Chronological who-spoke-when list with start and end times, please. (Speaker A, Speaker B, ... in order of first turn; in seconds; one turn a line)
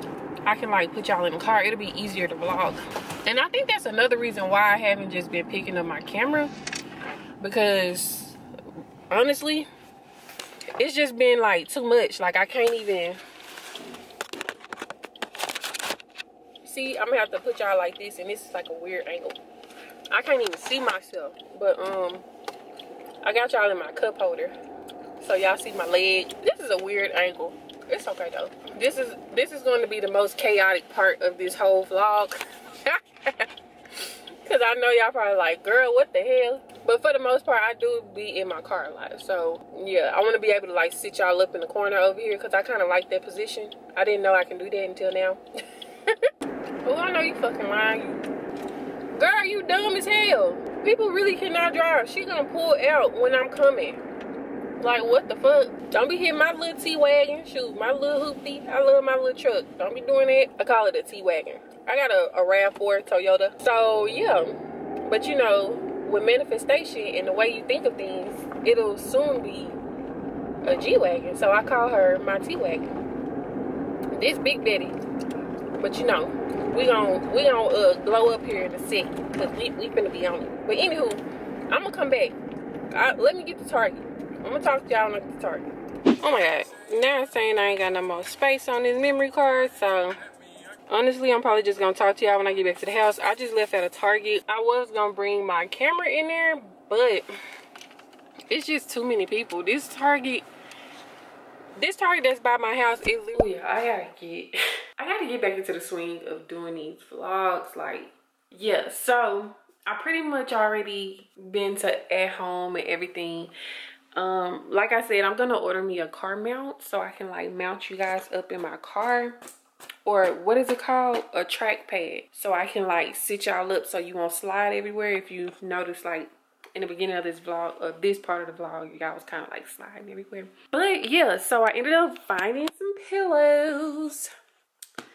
Speaker A: 0.4-6.5
Speaker A: 7.4-8.4
Speaker A: 9.1-9.7
Speaker A: 10.8-13.2
Speaker A: 16.6-19.4
Speaker A: 20.1-22.2
Speaker A: 23.2-24.5
Speaker A: 25.2-33.5
Speaker A: 34.0-45.4
Speaker A: 46.8-48.3
Speaker A: 49.1-54.0
Speaker A: 54.8-69.8
Speaker A: 70.6-72.9
Speaker A: 74.1-75.0
Speaker A: 75.8-82.4
Speaker A: 82.9-85.7
Speaker A: 86.2-90.3
Speaker A: 90.9-97.2
Speaker A: 98.5-100.4
Speaker A: 101.8-113.5
Speaker A: 114.2-119.4
Speaker A: 120.0-134.3